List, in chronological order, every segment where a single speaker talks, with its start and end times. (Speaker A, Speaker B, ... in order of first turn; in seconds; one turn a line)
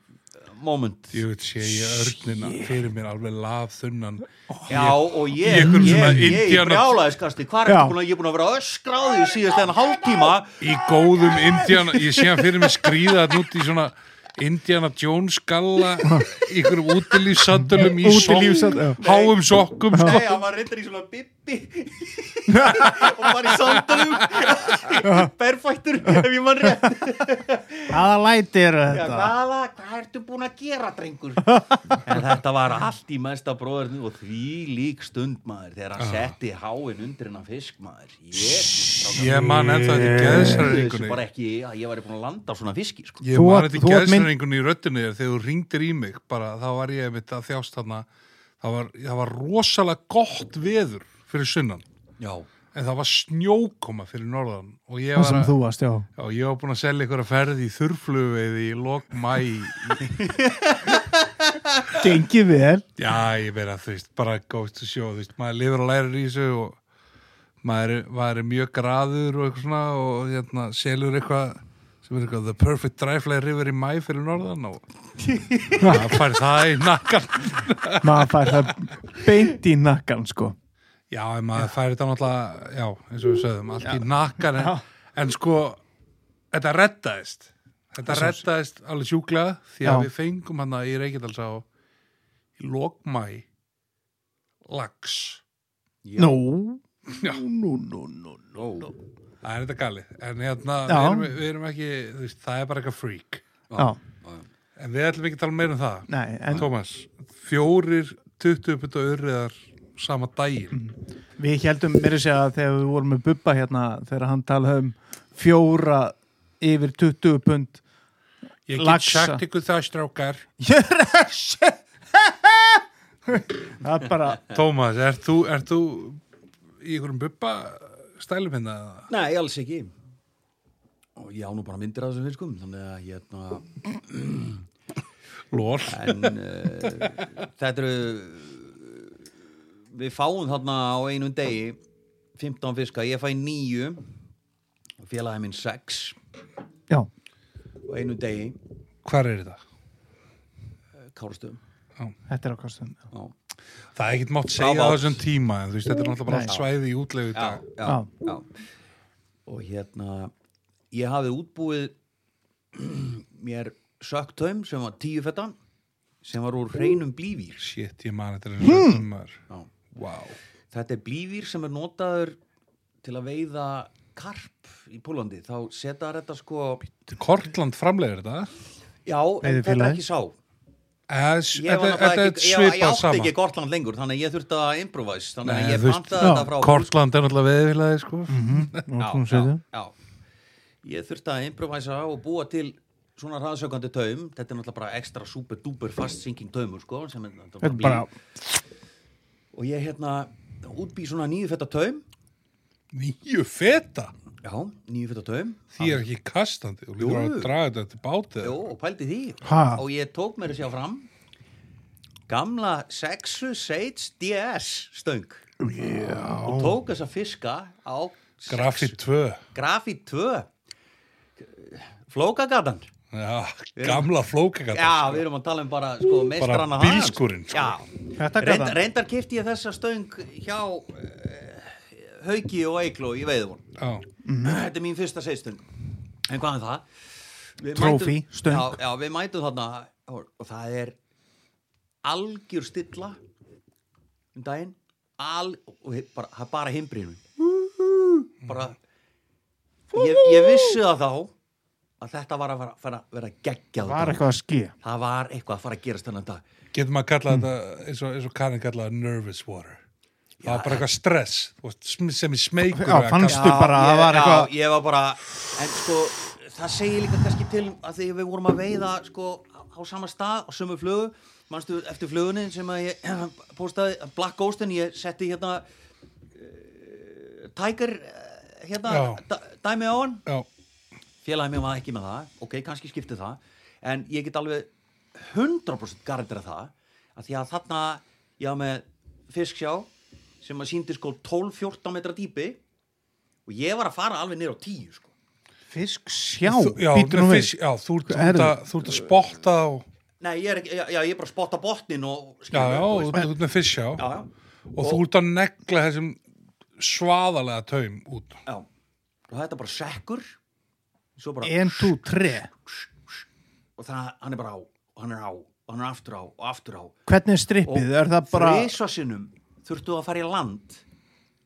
Speaker A: 0.4-1.2
Speaker B: 1.1-7.0
Speaker C: 2.4-2.7
Speaker A: 4.7-10.6
Speaker C: 5.5-6.3
Speaker C: 7.7-8.0
Speaker B: 10.6-20.3
Speaker C: 17.6-19.0
Speaker A: 19.0-19.4
Speaker A: 19.9-28.0
Speaker C: 19.9-20.2
Speaker C: 22.5-23.1
Speaker C: 25.0-25.3
Speaker C: 27.9-29.3
Speaker A: 28.9-43.2
Speaker C: 31.5-32.0
Speaker B: 36.0-36.3
Speaker B: 39.1-41.2
Speaker C: 39.1-40.8
Speaker B: 43.2-48.0
Speaker C: 43.3-44.3
Speaker B: 48.6-51.8
Speaker A: 52.2-52.5
Speaker B: 52.7-55.6
Speaker C: 55.2-56.1
Speaker B: 56.2-60.4
Speaker A: 60.1-61.7
Speaker C: 62.0-62.9
Speaker B: 63.0-66.8
Speaker B: 67.6-74.8
Speaker A: 75.2-76.0
Speaker B: 75.7-78.7
Speaker C: 75.8-76.2
Speaker C: 78.0-80.6
Speaker B: 81.1-85.8
Speaker C: 83.8-84.8
Speaker B: 86.5-91.7
Speaker C: 88.0-88.4
Speaker C: 89.8-90.1
Speaker B: 92.6-93.5
Speaker B: 94.7-95.4
Speaker A: 96.0-96.4
Speaker C: 96.2-98.5
Speaker A: 98.5-98.9
Speaker B: 99.4-103.4
Speaker C: 100.9-101.4
Speaker A: 103.7-104.5
Speaker B: 104.8-110.8
Speaker C: 106.1-106.7
Speaker C: 110.7-117.8
Speaker B: 118.7-120.5
Speaker C: 118.7-119.4
Speaker C: 120.6-124.4
Speaker B: 124.5-126.2
Speaker B: 126.8-129.1
Speaker A: 129.1-129.9
Speaker A: 131.2-134.7
Speaker B: 135.5-136.3
Speaker A: 135.9-139.2
Speaker A: 139.9-141.8
Speaker A: 142.4-144.0
Speaker A: 145.0-146.2
Speaker A: 147.9-148.6
Speaker B: 149.1-149.6
Speaker A: 151.1-151.6
Speaker C: 152.3-153.0
Speaker B: 154.0-157.6
Speaker A: 154.6-155.2
Speaker C: 156.3-156.5
Speaker A: 157.3-158.5
Speaker A: 159.5-160.3
Speaker A: 160.9-161.9
Speaker A: 162.7-165.6
Speaker A: 166.2-167.7
Speaker B: 167.6-169.4
Speaker C: 168.6-169.1
Speaker B: 169.9-170.4
Speaker A: 170.7-172.4
Speaker A: 173.0-176.8
Speaker B: 177.1-178.5
Speaker A: 179.1-180.4
Speaker C: 179.4-180.0
Speaker B: 181.1-183.3
Speaker A: 181.6-186.9
Speaker B: 185.4-188.9
Speaker C: 186.2-186.5
Speaker C: 188.3-189.6
Speaker A: 189.0-189.9
Speaker A: 190.8-198.1
Speaker C: 197.6-198.1
Speaker A: 199.5-202.0
Speaker B: 202.9-204.1
Speaker A: 204.4-206.0
Speaker B: 205.8-208.6
Speaker A: 207.0-207.5
Speaker A: 208.4-211.1
Speaker C: 209.4-209.8
Speaker A: 212.3-215.4
Speaker C: 215.6-216.8
Speaker A: 216.4-219.0
Speaker B: 218.5-219.4
Speaker A: 219.5-220.5
Speaker A: 221.4-222.9
Speaker B: 223.1-225.2
Speaker A: 223.8-224.1
Speaker A: 224.7-233.7
Speaker B: 226.4-227.8
Speaker C: 228.2-228.8
Speaker B: 233.8-234.1
Speaker C: 234.2-234.6
Speaker A: 234.4-235.7
Speaker A: 236.3-236.9
Speaker A: 237.6-241.0
Speaker C: 237.7-238.8
Speaker A: 242.0-243.2
Speaker A: 244.3-247.2
Speaker A: 248.4-248.8
Speaker A: 249.9-251.3
Speaker C: 249.9-250.8
Speaker A: 252.0-254.3
Speaker C: 253.8-254.7
Speaker A: 254.8-256.4
Speaker B: 256.7-259.8
Speaker A: 260.4-260.9
Speaker B: 260.4-263.6
Speaker C: 262.7-264.5
Speaker A: 263.3-275.6
Speaker A: 276.4-280.2
Speaker B: 278.9-279.2
Speaker A: 281.2-289.9
Speaker A: 290.4-292.6
Speaker A: 293.5-295.1
Speaker C: 295.7-297.5
Speaker B: 296.4-299.9
Speaker C: 298.1-299.0
Speaker A: 300.2-303.3
Speaker B: 302.5-304.0
Speaker A: 304.0-305.0
Speaker B: 304.7-306.2
Speaker B: 306.8-308.4
Speaker A: 309.3-310.4
Speaker A: 311.2-313.2
Speaker C: 311.4-312.5
Speaker A: 313.8-316.9
Speaker C: 317.1-318.7
Speaker A: 317.6-320.8